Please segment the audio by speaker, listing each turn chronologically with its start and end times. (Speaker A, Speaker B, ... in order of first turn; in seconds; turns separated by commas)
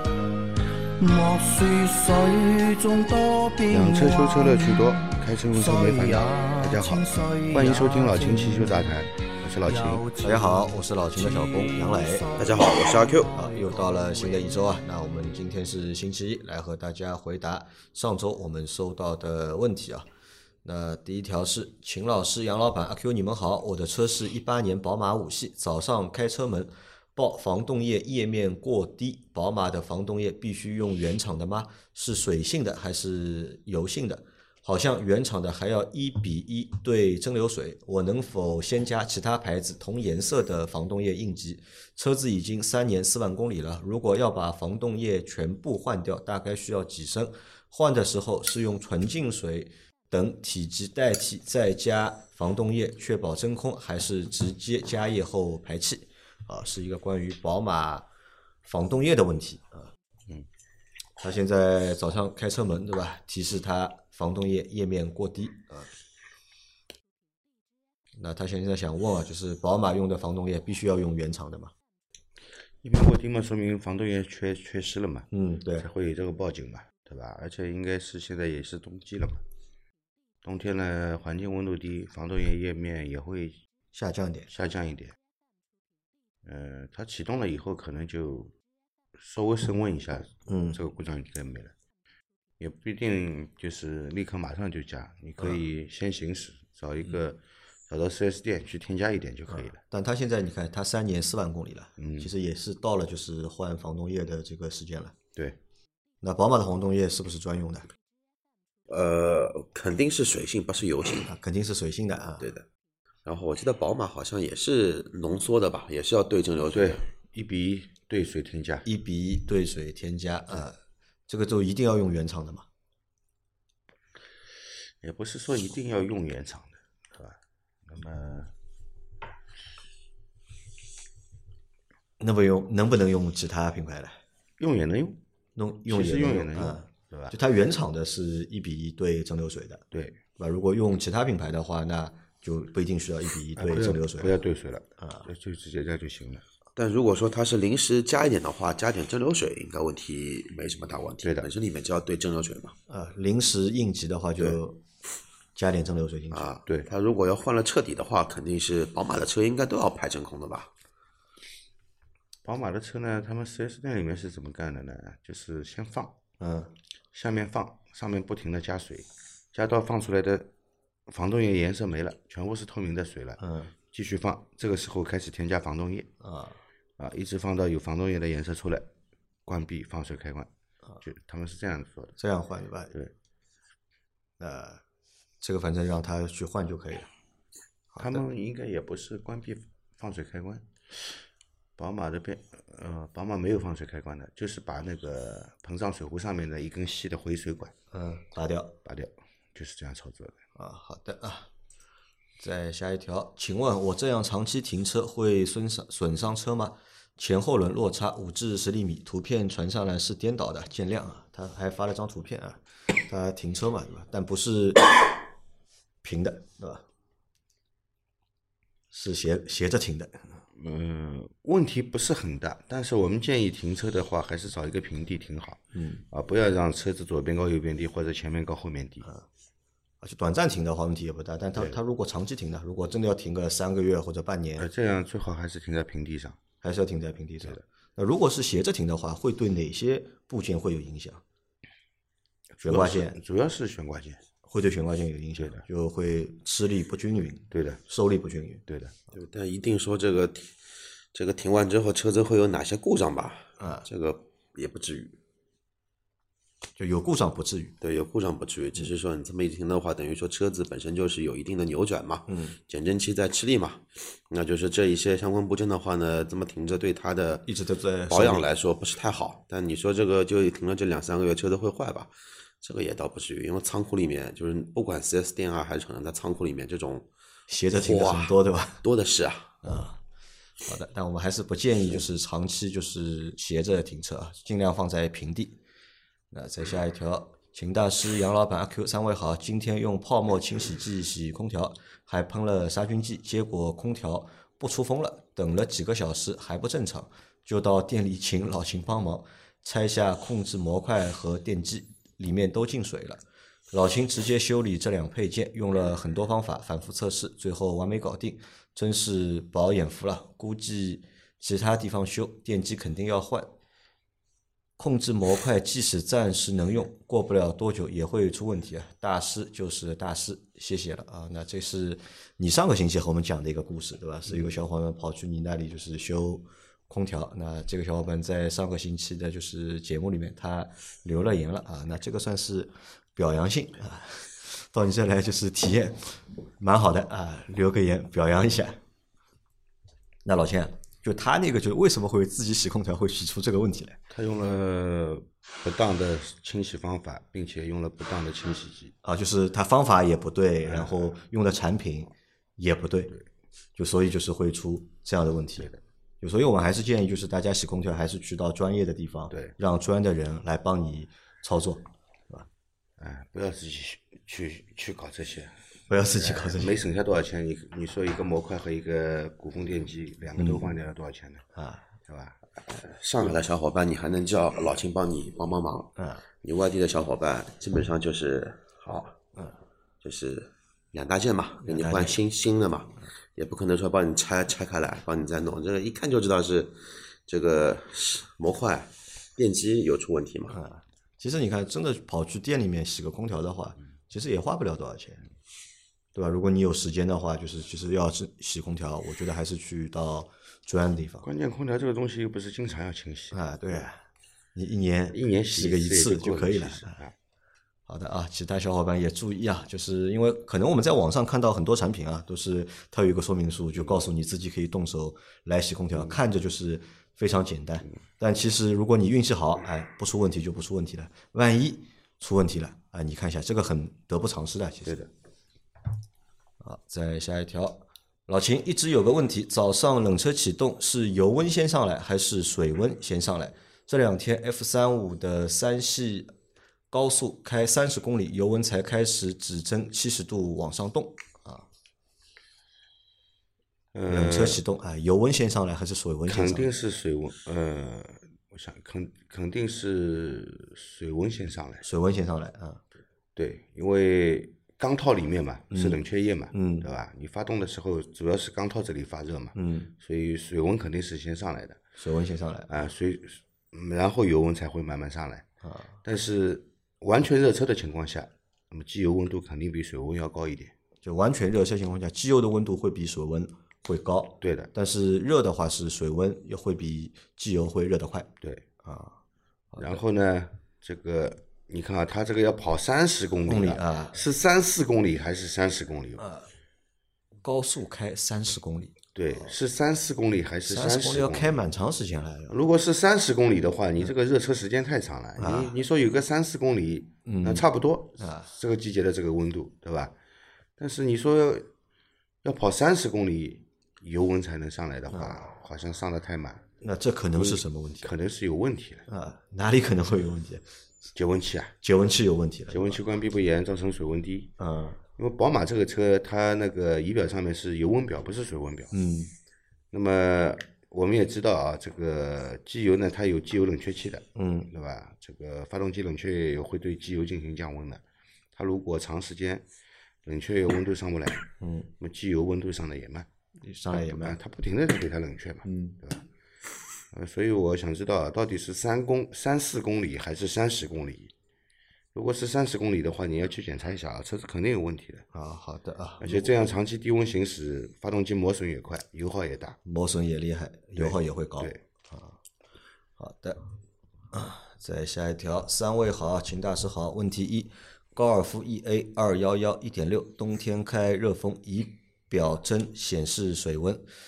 Speaker A: 0.5-9.1, Speaker B: 3.7-10.1, Speaker A: 9.6-14.6, Speaker C: 10.2-12.3, Speaker D: 12.4-13.3, Speaker C: 13.3-20.1, Speaker C: 20.6-58.0, Speaker C: 58.6-59.9, Speaker C: 61.2-65.9, Speaker C: 68.2-71.7, Speaker B: 72.8-79.4, Speaker C: 75.3-75.9, Speaker B: 80.4-83.6, Speaker C: 83.9-84.5, Speaker B: 84.5-85.2, Speaker B: 86.5-88.5, Speaker B: 89.2-91.7, Speaker C: 90.5-90.8, Speaker B: 92.6-99.8, Speaker C: 99.5-105.2, Speaker B: 102.0-102.3, Speaker C: 106.2-107.9, Speaker D: 108.9-111.3, Speaker C: 111.3-112.5, Speaker D: 112.4-112.7, Speaker D: 113.3-117.0, Speaker B: 116.7-118.9, Speaker C: 118.8-120.8, Speaker C: 121.3-122.7, Speaker B: 125.0-127.3, Speaker B: 127.9-128.5, Speaker C: 132.2-134.2, Speaker B: 134.6-135.2, Speaker C: 135.6-139.8, Speaker B: 135.9-137.4, Speaker B: 139.9-140.2, Speaker C: 140.4-144.4, Speaker B: 143.6-146.4, Speaker C: 145.0-145.3, Speaker D: 146.8-152.8, Speaker C: 152.9-154.8, Speaker C: 155.6-156.4, Speaker D: 156.3-160.7, Speaker B: 162.4-166.2, Speaker C: 166.4-166.7, Speaker B: 167.1-170.5, Speaker B: 171.1-176.1, Speaker C: 173.4-173.7, Speaker C: 176.2-176.6, Speaker B: 177.0-178.9, Speaker B: 179.5-180.5, Speaker B: 181.0-182.2, Speaker C: 182.2-182.9, Speaker C: 184.4-184.8, Speaker C: 185.4-187.1, Speaker C: 187.9-188.2, Speaker B: 188.0-191.2, Speaker B: 191.8-197.7, Speaker C: 197.9-198.8, Speaker B: 198.8-200.4, Speaker C: 200.6-201.5, Speaker C: 202.4-215.2, Speaker C: 216.0-216.8, Speaker C: 218.9-220.4, Speaker B: 220.6-229.1, Speaker C: 225.8-226.0, Speaker C: 230.0-234.7, Speaker B: 234.6-236.4, Speaker C: 236.6-241.2, Speaker B: 242.6-244.2, Speaker C: 242.6-243.2, Speaker C: 244.5-248.6, Speaker B: 245.4-245.6, Speaker B: 247.5-247.8, Speaker B: 248.7-248.9, Speaker D: 249.1-250.5, Speaker D: 251.1-255.2, Speaker C: 253.6-253.9, Speaker C: 256.8-257.8, Speaker D: 257.8-267.5, Speaker C: 262.3-262.6, Speaker C: 267.5-268.5, Speaker D: 268.1-277.1, Speaker C: 277.5-278.8, Speaker D: 277.8-279.6, Speaker C: 279.6-280.0, Speaker C: 280.6-285.6, Speaker C: 286.3-313.5, Speaker C: 314.8-338.8, Speaker C: 340.2-344.0, Speaker B: 344.1-348.9, Speaker C: 349.0-353.1, Speaker B: 350.6-351.1, Speaker C: 353.8-355.7, Speaker C: 356.2-362.5, Speaker B: 363.0-371.4, Speaker C: 365.9-366.8, Speaker C: 370.4-370.7, Speaker C: 371.6-371.9, Speaker B: 372.1-372.4, Speaker D: 372.8-379.1, Speaker C: 376.0-376.2, Speaker D: 380.0-390.6, Speaker C: 381.6-382.2, Speaker C: 390.5-395.2, Speaker C: 396.1-401.3, Speaker B: 401.2-403.9, Speaker C: 403.3-404.0, Speaker C: 404.6-407.0, Speaker B: 405.1-407.1, Speaker C: 407.9-425.0, Speaker C: 426.6-436.3, Speaker C: 436.9-441.7, Speaker B: 443.9-444.6, Speaker C: 444.1-446.7, Speaker B: 446.3-451.8, Speaker C: 451.8-452.8, Speaker B: 453.4-461.8, Speaker C: 455.7-456.0, Speaker C: 456.5-456.9, Speaker C: 459.5-459.9, Speaker C: 462.0-462.7, Speaker B: 462.7-465.5, Speaker C: 465.6-466.0, Speaker B: 466.0-470.7, Speaker C: 471.0-478.3, Speaker B: 474.4-474.7, Speaker C: 478.8-479.2, Speaker C: 479.7-480.0, Speaker B: 479.8-486.2, Speaker C: 483.5-484.2, Speaker C: 486.2-486.5, Speaker C: 487.4-489.5, Speaker B: 489.1-491.6, Speaker C: 490.7-492.6, Speaker B: 492.5-500.1, Speaker C: 495.4-495.8, Speaker C: 497.3-497.7, Speaker C: 498.2-498.5, Speaker B: 500.8-501.7, Speaker B: 502.4-506.7, Speaker C: 505.1-505.4, Speaker C: 506.8-508.1, Speaker B: 507.4-509.1, Speaker C: 509.1-510.6, Speaker B: 511.1-511.8, Speaker C: 511.8-513.0, Speaker B: 512.7-514.5, Speaker C: 514.6-515.0, Speaker B: 515.2-519.0, Speaker C: 518.9-519.3, Speaker B: 519.9-528.0, Speaker C: 524.4-524.7, Speaker B: 528.5-529.6, Speaker B: 530.2-531.5, Speaker C: 531.6-531.9, Speaker B: 532.0-533.3, Speaker C: 533.6-534.4, Speaker B: 533.9-536.2, Speaker C: 535.6-536.0, Speaker B: 537.1-541.3, Speaker B: 542.1-545.3, Speaker C: 545.3-546.5, Speaker B: 546.2-549.8, Speaker C: 549.9-552.4, Speaker B: 551.0-551.8, Speaker C: 553.2-553.6, Speaker C: 554.3-564.0